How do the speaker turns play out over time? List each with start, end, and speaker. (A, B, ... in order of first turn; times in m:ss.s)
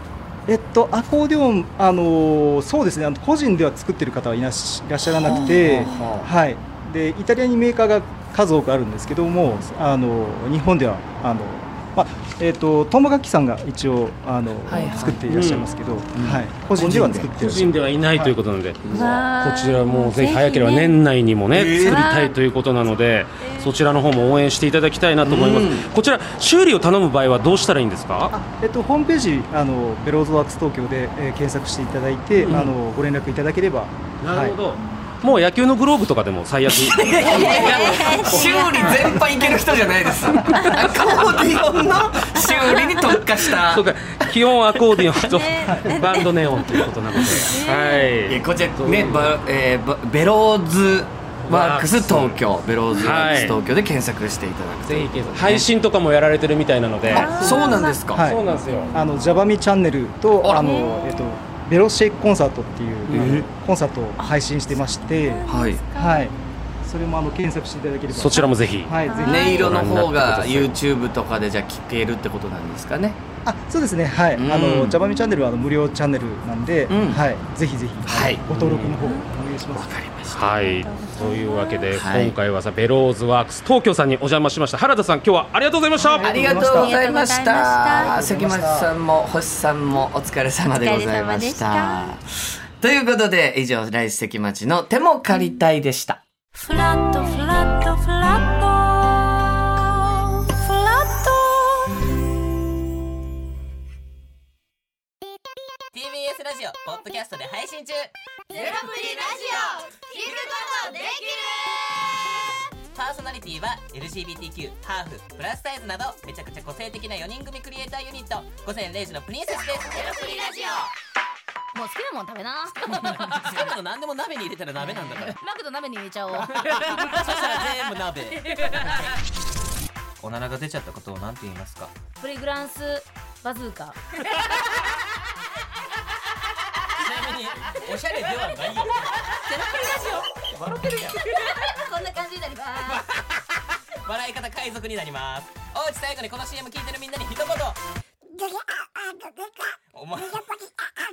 0:00.5-0:18.3 A
0:05.2-0:06.3 B
0:05.3-0:06.1 C
0:14.6-0:15.2 B
0:14.7-0:15.2 C
0:15.2-0:15.7 D
0:16.1-0:17.6 B
0:16.9-0:28.3 D
0:18.8-0:19.2 B
0:18.9-0:21.0 C
0:21.5-0:22.0 B
0:21.8-0:22.4 C
0:23.4-0:23.7 C
0:25.2-0:25.9 B
0:28.3-0:34.6 A
0:32.4-0:32.7 D
0:34.2-0:39.1 D
0:36.7-0:45.2 B
0:37.2-0:39.6 C
0:40.4-0:41.5 C
0:40.5-0:41.6 A
0:42.4-0:43.0 C
0:43.6-0:49.4 D
0:45.2-0:48.3 C
0:45.7-0:45.9 A
0:46.7-0:47.5 B
0:48.2-0:55.7 B
0:51.4-0:53.6 D
0:53.0-0:53.6 C
0:54.9-0:57.3 D
0:57.1-0:58.2 B
0:57.1-0:59.5 C
0:58.1-1:09.6 A
0:58.2-0:58.9 D
1:00.4-1:01.4 C
1:00.4-1:00.8 B
1:03.1-1:03.4 D
1:03.1-1:03.4 B
1:04.2-1:06.6 C
1:05.4-1:05.8 B
1:08.2-1:08.9 D
1:08.3-1:09.9 C
1:09.2-1:13.2 B
1:09.6-1:10.7 D
1:13.4-1:19.9 A
1:14.4-1:15.0 B
1:16.9-1:17.2 B
1:18.0-1:18.4 B
1:18.5-1:19.0 D
1:19.0-1:19.3 C
1:19.8-1:20.5 B
1:20.3-1:26.2 D
1:20.4-1:22.0 C
1:21.9-1:22.3 B
1:26.0-1:28.2 C
1:26.2-1:26.9 A
1:26.2-1:36.2 B
1:27.9-1:28.9 A
1:30.8-1:32.2 C
1:36.6-1:42.0 C
1:45.9-1:51.5 E
1:48.5-1:51.4 F
1:52.9-2:00.9 E
2:00.2-2:00.6 F
2:01.7-2:03.7 F
2:03.0-2:05.4 E
2:04.8-2:07.8 F
2:06.5-2:09.1 E
2:10.2-2:12.0 E
2:12.1-2:14.0 F
2:17.0-2:21.7 E
2:19.5-2:20.3 F
2:21.4-2:23.0 F
2:22.9-2:23.4 E
2:23.9-2:27.8 E
2:29.9-2:30.7 E